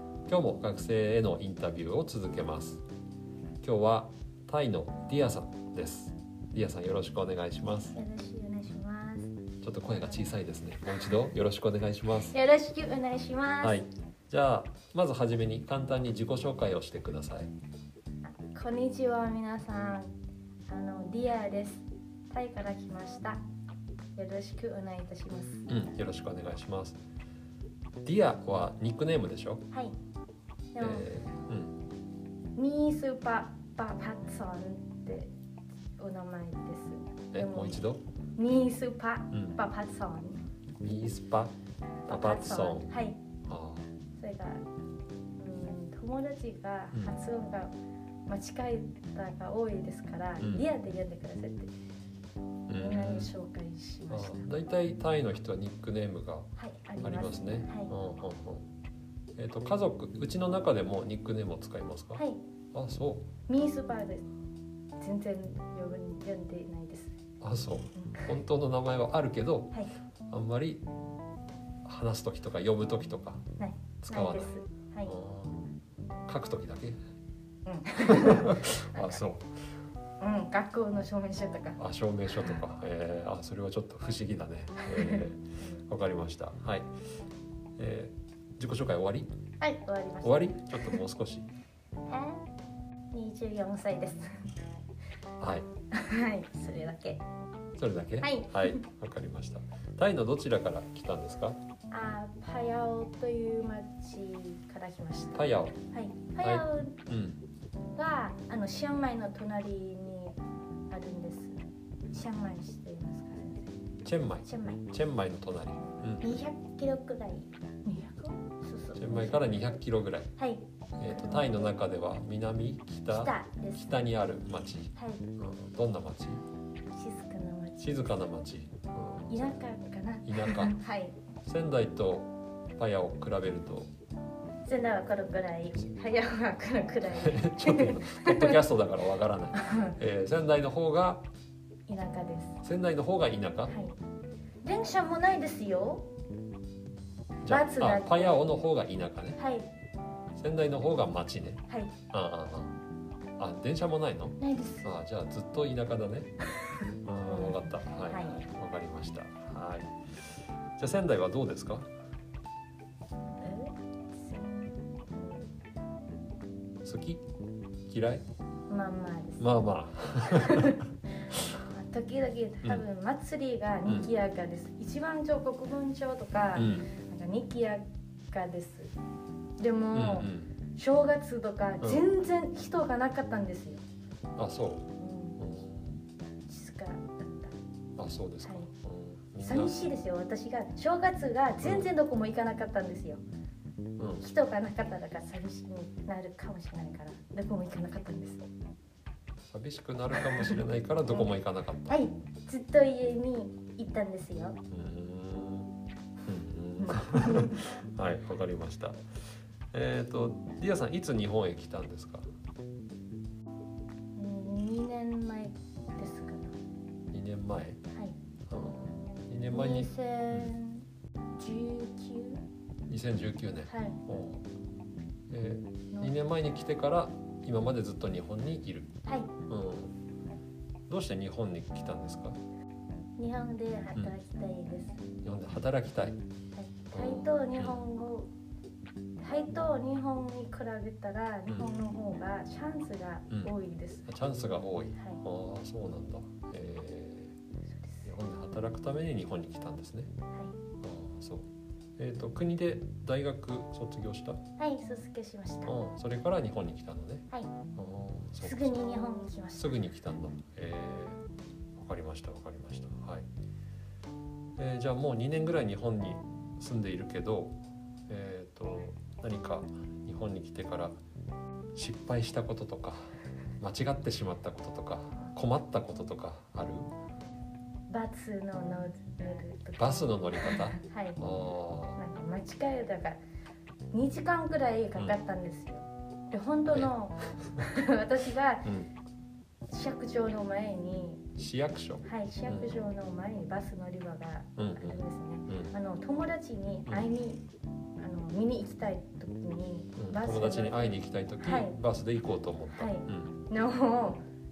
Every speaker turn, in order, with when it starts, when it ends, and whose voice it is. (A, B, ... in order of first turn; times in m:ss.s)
0:00.3-0:02.8 A
0:03.6-0:08.0 A
0:07.9-0:09.3 B
0:09.6-0:12.3 A
0:09.9-0:10.3 B
0:12.2-0:13.8 B
0:13.6-0:17.5 A
0:18.2-0:20.1 B
0:20.7-0:23.4 B
0:24.2-0:25.6 B
0:25.7-0:27.0 A
0:28.0-0:29.6 A
0:29.7-0:30.0 B
0:30.7-0:31.1 B
0:30.8-0:31.8 A
0:32.6-0:35.3 B
0:36.0-0:37.8 B
0:37.3-0:38.0 A
0:38.4-0:40.4 B
0:39.3-0:39.6 A
0:40.8-0:41.5 A
0:42.1-0:42.9 A
0:42.1-0:43.2 B
0:43.5-0:43.8 A
0:44.2-0:44.6 B
0:45.4-0:47.7 B
0:48.3-0:51.7 B
0:50.4-0:50.6 A
0:52.7-0:53.3 A
0:52.8-0:54.5 B
0:54.1-0:56.5 A
0:56.6-0:57.9 B
0:57.0-0:58.6 A
0:59.4-1:03.3 A
1:03.5-1:04.2 B
1:05.0-1:07.2 B
1:07.4-1:10.8 A
1:08.0-1:08.3 B
1:11.8-1:13.4 A
1:13.6-1:15.1 B
1:14.0-1:15.7 A
1:16.2-1:17.0 A
1:17.6-1:19.2 B
1:18.0-1:19.5 A
1:20.2-1:21.8 B
1:21.8-1:26.9 A
1:24.8-1:25.8 B
1:27.8-1:29.3 A
1:29.6-1:31.0 B
1:30.2-1:31.5 A
1:32.1-1:32.4 B
1:33.1-1:34.4 B
1:35.4-1:35.7 A
1:35.9-1:37.2 B
1:37.8-1:41.6 A
1:38.2-1:38.8 B
1:41.9-1:47.0 B
1:45.3-1:45.8 A
1:46.4-1:47.4 A
1:48.0-1:50.4 B
1:50.9-1:51.6 B
1:52.1-1:53.7 B
1:54.0-1:56.4 A
1:54.4-1:54.8 B
1:56.2-1:59.8 B
1:59.0-2:00.3 A
2:00.4-2:01.8 B
2:01.0-2:06.4 A
2:03.1-2:04.0 B
2:04.9-2:05.2 B
2:06.9-2:08.0 B
2:07.8-2:09.6 A
2:09.3-2:11.2 B
2:10.2-2:10.8 A
2:11.4-2:13.9 A
2:14.6-2:18.6 B
2:17.0-2:21.2 A
2:19.5-2:19.9 B
2:21.9-2:22.6 B
2:22.6-2:23.7 A
2:23.7-2:24.0 B
2:24.6-2:26.1 B
2:27.4-2:29.4 A
2:27.5-2:28.5 B
2:29.4-2:29.7 B
2:30.4-2:32.8 A
2:31.7-2:31.9 B
2:33.4-2:36.3 A
2:34.4-2:35.0 B
2:37.0-2:41.9 A
2:37.2-2:38.4 B
2:43.4-2:45.5 B
2:46.8-2:47.2 A
2:47.9-2:48.2 A
2:48.7-2:49.6 B
2:49.4-2:50.8 A
2:50.3-2:50.8 B
2:51.7-2:58.9 B
2:56.5-2:56.9 A
2:59.6-3:03.8 B
2:59.9-3:00.5 A
3:04.4-3:04.9 A
3:05.0-3:05.4 B
3:05.4-3:06.0 A
3:06.5-3:07.5 B
3:08.0-3:09.8 A
3:08.4-3:08.7 B
3:09.4-3:13.2 B
3:11.6-3:11.9 A
3:14.0-3:14.2 A
3:14.2-3:18.4 B
3:19.5-3:22.0 A
3:20.2-3:21.4 B
3:21.9-3:24.6 B
3:24.7-3:25.7 A
3:26.2-3:29.0 A
3:26.8-3:27.6 B
3:29.7-3:32.3 A
3:34.2-3:36.5 B
3:37.1-3:37.8 A
3:38.5-3:40.6 A
3:39.5-3:40.8 B
3:41.4-3:42.4 B
3:42.9-3:44.4 A
3:43.7-3:44.0 B
3:45.3-3:48.9 A
3:49.5-3:49.9 A
3:50.9-3:52.4 A
3:53.2-3:55.0 B
3:55.2-3:56.2 A
3:56.5-3:58.3 B
3:56.9-3:57.8 A
3:59.2-4:04.1 B
4:04.1-4:07.3 A
4:07.8-4:08.0 B
4:08.0-4:10.1 A
4:10.8-4:11.4 A
4:12.0-4:14.4 A
4:14.6-4:15.8 B
4:15.6-4:21.2 A
4:18.4-4:19.7 B
4:21.7-4:23.2 A
4:24.6-4:27.6 A
4:28.1-4:31.0 A
4:31.7-4:36.9 A
4:37.9-4:41.2 B
4:39.8-4:42.0 A
4:42.0-4:43.2 B
4:43.9-4:48.7 B
4:49.7-4:51.2 B
4:51.4-4:52.8 A
4:52.0-4:57.4 B
4:54.6-4:55.7 A
4:58.0-5:01.7 B
5:00.0-5:03.3 A
5:02.7-5:04.2 B